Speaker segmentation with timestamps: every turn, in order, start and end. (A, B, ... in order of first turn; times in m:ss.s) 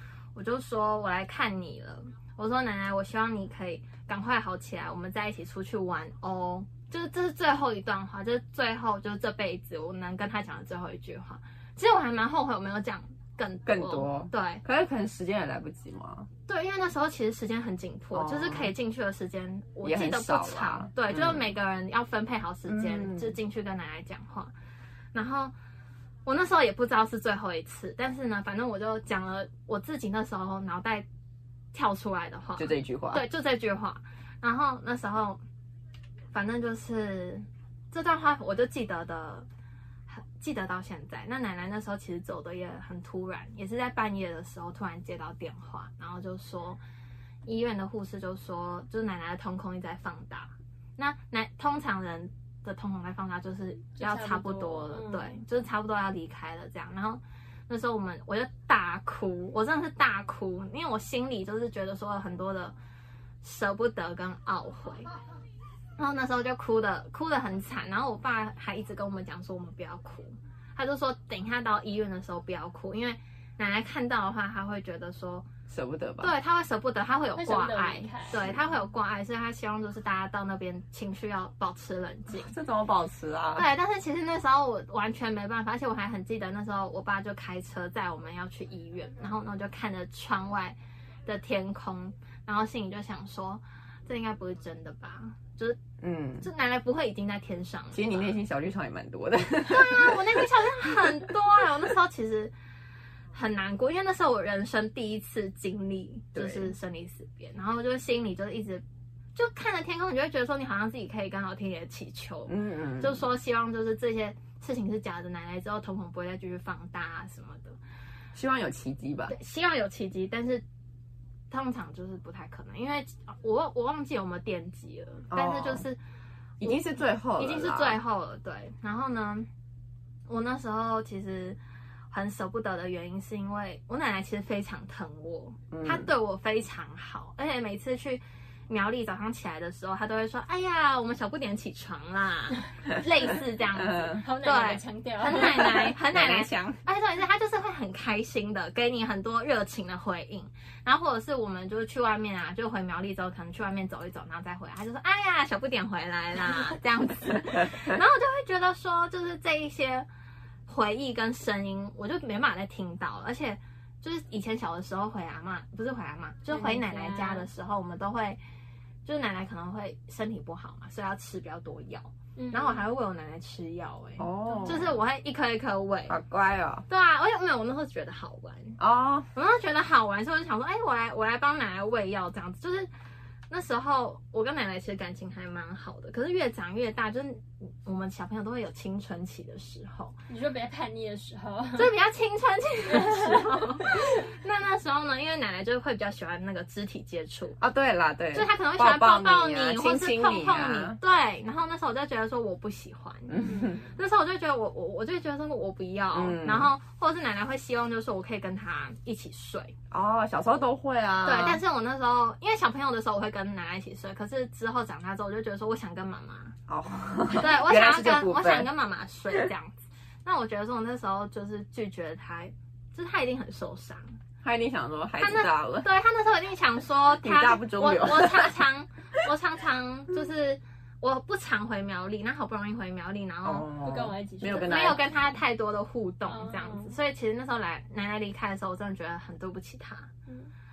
0:00.4-0:14.6 A
0:13.7-0:16.3 B
0:16.5-0:24.5 A
0:18.1-0:18.7 B
0:19.8-0:21.4 B
0:22.7-0:23.3 B
0:25.1-0:25.5 A
0:26.3-0:31.1 A
0:31.7-0:35.4 A
0:32.6-0:33.2 B
0:36.3-0:39.5 A
0:40.1-0:46.8 A
0:47.4-1:02.8 A
0:54.0-0:55.4 C
1:03.4-1:05.1 A
1:06.0-1:15.5 A
1:15.7-1:16.3 B
1:16.2-1:22.5 A
1:17.4-1:18.4 C
1:22.3-1:23.7 B
1:23.6-1:35.8 A
1:36.0-1:36.5 B
1:36.4-1:38.4 A
1:37.9-1:41.3 B
1:39.7-1:42.5 A
1:43.3-1:48.8 A
1:46.3-1:46.7 B
1:49.4-1:57.8 A
1:52.5-1:53.2 B
1:58.3-1:59.3 B
1:59.3-2:00.6 A
2:01.5-2:06.0 A
2:05.3-2:05.8 B
2:06.6-2:08.0 B
2:07.4-2:09.5 A
2:10.3-2:11.6 A
2:12.1-2:40.1 A
2:15.7-2:16.1 B
2:23.8-2:24.2 B
2:24.2-2:25.9 C
2:25.3-2:26.8 B
2:40.7-2:48.4 A
2:46.5-2:47.5 C
2:49.0-2:56.2 A
2:52.4-2:52.9 C
2:54.2-2:55.0 B
2:54.5-2:54.8 C
2:56.1-2:56.8 B
2:56.9-2:58.8 A
2:58.8-2:59.3 B
2:59.3-3:02.9 A
3:03.5-3:10.2 A
3:10.3-3:11.9 C
3:11.8-3:17.6 A
3:12.9-3:14.1 C
3:17.6-3:21.0 B
3:18.3-3:29.8 A
3:23.3-3:23.8 B
3:23.4-3:23.8 C
3:26.1-3:26.7 B
3:29.9-3:31.6 B
3:31.2-3:36.6 A
3:36.7-3:38.7 B
3:37.3-3:44.1 A
3:44.4-3:45.9 B
3:45.2-3:53.7 A
3:47.2-3:48.6 B
3:53.4-3:55.0 B
3:53.8-3:55.0 C
3:54.6-4:00.1 A
3:56.3-3:57.0 C